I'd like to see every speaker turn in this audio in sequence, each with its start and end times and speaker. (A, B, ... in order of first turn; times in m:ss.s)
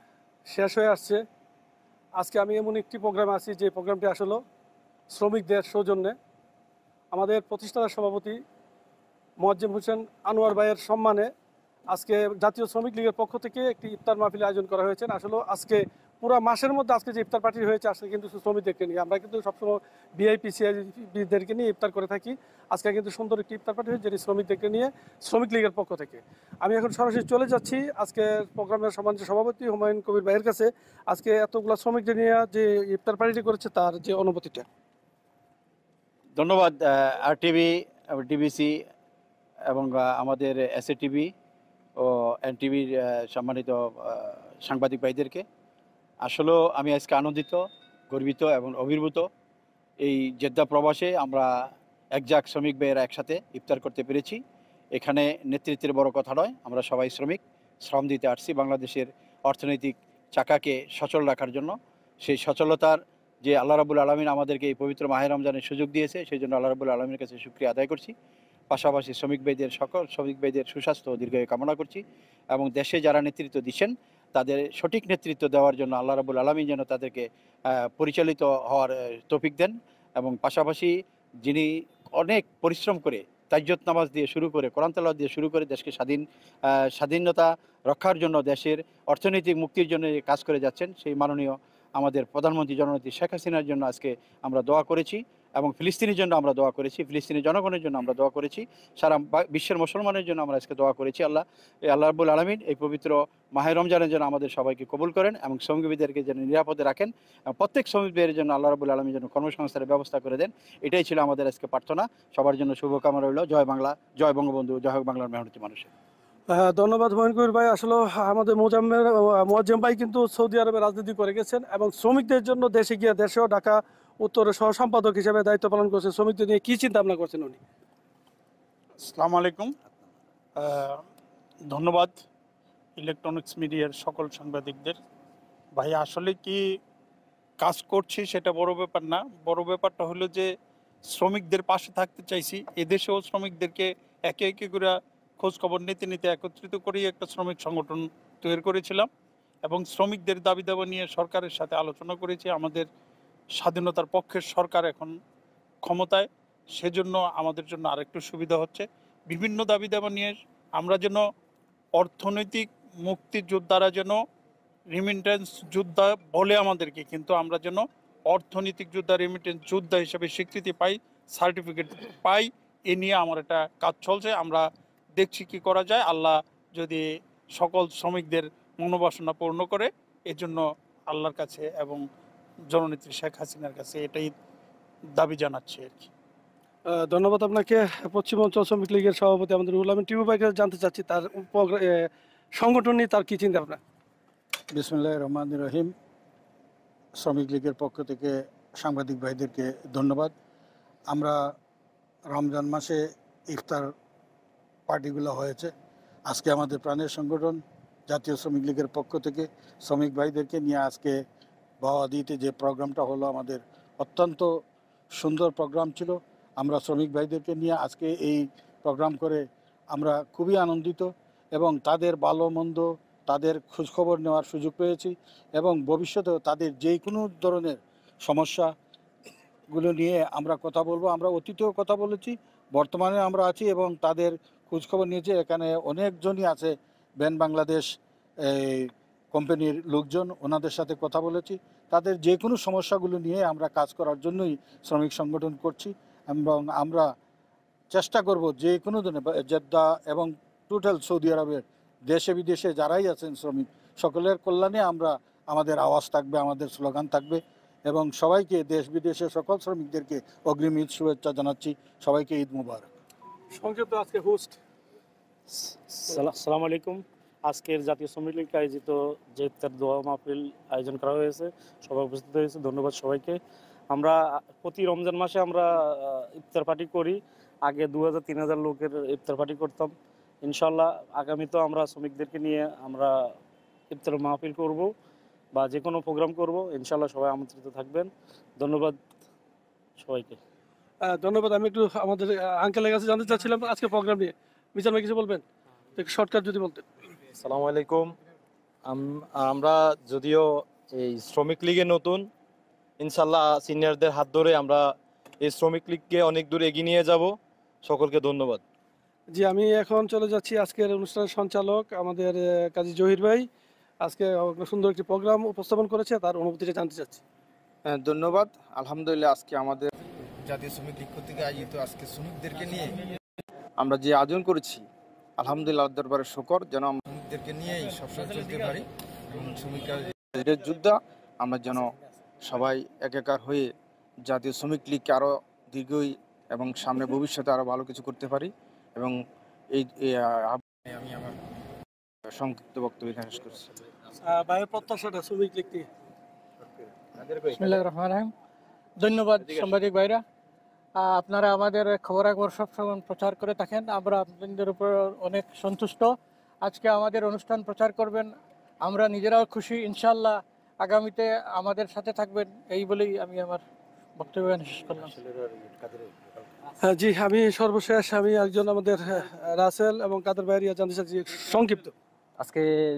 0:00.5-0:01.2 A
0:02.2-0:04.4 A
0:05.1-0:06.1 A
0:07.1-0:08.4 A
0:09.4-0:11.3 A
0:11.9-0:34.6 A
0:36.4-0:38.8 B
0:39.7-0:41.3 B
0:42.0-0:45.4 B
0:46.2-0:49.2 B
0:50.0-0:51.5 B
0:52.1-0:54.4 B
0:54.9-1:08.1 B
1:08.7-1:20.9 B
1:21.4-1:55.9 B
1:56.5-2:07.6 A
2:09.0-2:09.7 C
2:10.6-2:11.0 C
2:11.7-2:12.2 C
2:13.0-2:14.9 C
2:15.7-2:16.6 C
2:17.6-2:20.5 C
2:21.1-2:29.1 C
2:29.6-2:32.8 C
2:33.6-2:35.1 C
2:35.8-2:41.2 C
2:41.9-2:44.2 C
2:44.9-2:54.6 C
2:55.2-2:57.0 C
2:57.6-3:02.0 C
3:02.7-3:04.3 C
3:05.2-3:06.1 C
3:06.9-3:13.8 A
3:14.7-3:15.9 D
3:17.2-3:20.3 D
3:21.1-3:21.4 D
3:22.3-3:23.9 D
3:24.9-3:25.7 D
3:26.3-3:31.2 D
3:31.8-3:34.5 D
3:35.2-3:48.7 D
3:49.7-3:57.9 D
3:58.4-4:07.1 D
4:07.9-4:22.9 D
4:23.5-4:24.6 A
4:26.0-4:33.4 E
4:33.9-4:39.9 E
4:40.4-4:43.1 E
4:43.9-4:44.9 E
4:45.5-4:49.0 E
4:50.0-4:50.4 E
4:51.0-4:55.4 A
4:56.0-4:56.8 A
4:57.3-4:58.2 F
4:58.8-5:02.3 F
5:03.0-5:08.6 F
5:09.3-5:13.5 A
5:14.0-5:17.2 A
5:17.9-5:19.9 G
5:20.4-5:23.0 G
5:23.8-5:24.8 G
5:25.4-5:33.6 G
5:34.3-5:39.2 G
5:39.7-5:41.4 G
5:42.3-5:43.6 G
5:44.3-5:45.9 A
5:47.4-5:48.3 H
5:49.0-5:50.2 H
5:50.9-6:03.6 H
6:04.2-6:05.1 H
6:06.8-6:11.9 A